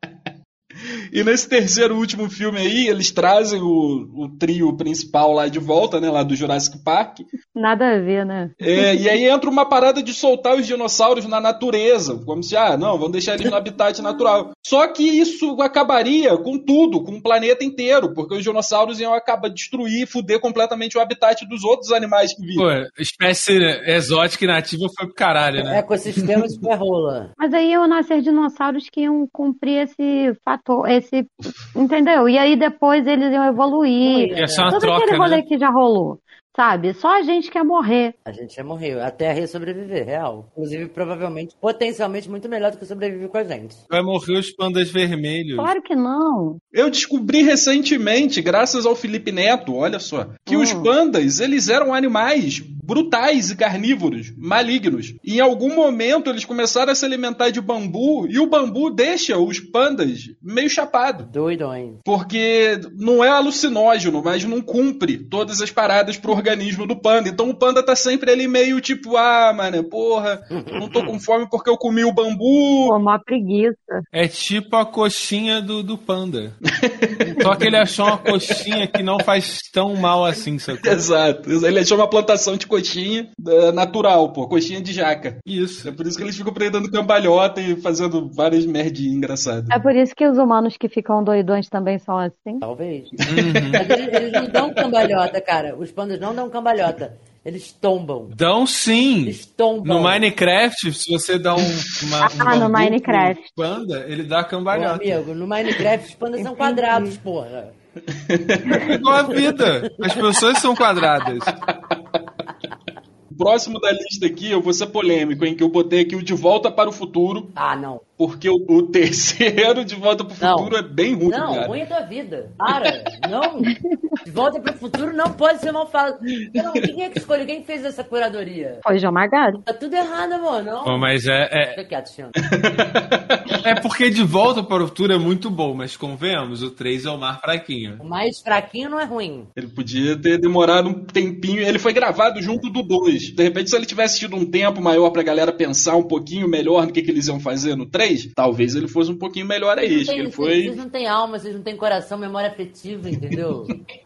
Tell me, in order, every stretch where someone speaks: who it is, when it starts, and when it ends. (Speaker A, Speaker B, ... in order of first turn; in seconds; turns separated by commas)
Speaker A: 1.1-7.3, Speaker B: 7.5-9.1, Speaker A: 8.6-22.7, Speaker B: 14.0-14.4, Speaker C: 22.6-25.8, Speaker D: 25.6-27.3, Speaker B: 27.4-38.1, Speaker D: 34.0-34.8, Speaker C: 34.4-35.4, Speaker D: 38.2-43.8, Speaker C: 43.9-45.7, Speaker B: 45.6-46.6, Speaker A: 46.7-61.3, Speaker B: 50.5-50.9, Speaker D: 61.2-62.0, Speaker A: 62.0-72.9, Speaker D: 70.5-71.1, Speaker B: 72.8-74.0, Speaker C: 74.1-76.6, Speaker A: 76.9-78.9, Speaker C: 77.4-81.0, Speaker A: 80.8-89.8, Speaker C: 85.5-85.9, Speaker B: 89.7-92.6, Speaker D: 92.6-93.1, Speaker A: 93.2-94.8, Speaker C: 93.2-93.9, Speaker D: 93.8-98.4, Speaker C: 98.3-105.2, Speaker D: 99.2-100.2, Speaker B: 102.2-103.5, Speaker D: 104.7-107.7, Speaker B: 106.4-107.2, Speaker A: 108.1-109.0, Speaker C: 108.8-111.5, Speaker D: 109.3-110.4, Speaker A: 111.7-112.0, Speaker A: 113.3-117.5, Speaker D: 117.5-118.0, Speaker A: 118.2-121.8, Speaker D: 120.4-120.8, Speaker D: 121.3-128.8, Speaker A: 126.4-126.8, Speaker B: 128.8-129.6, Speaker D: 129.7-131.1, Speaker C: 130.8-131.8, Speaker D: 131.7-132.5, Speaker A: 132.5-133.6, Speaker C: 133.6-138.0, Speaker D: 138.0-139.5, Speaker A: 139.6-150.8, Speaker D: 149.8-153.7, Speaker A: 153.3-153.8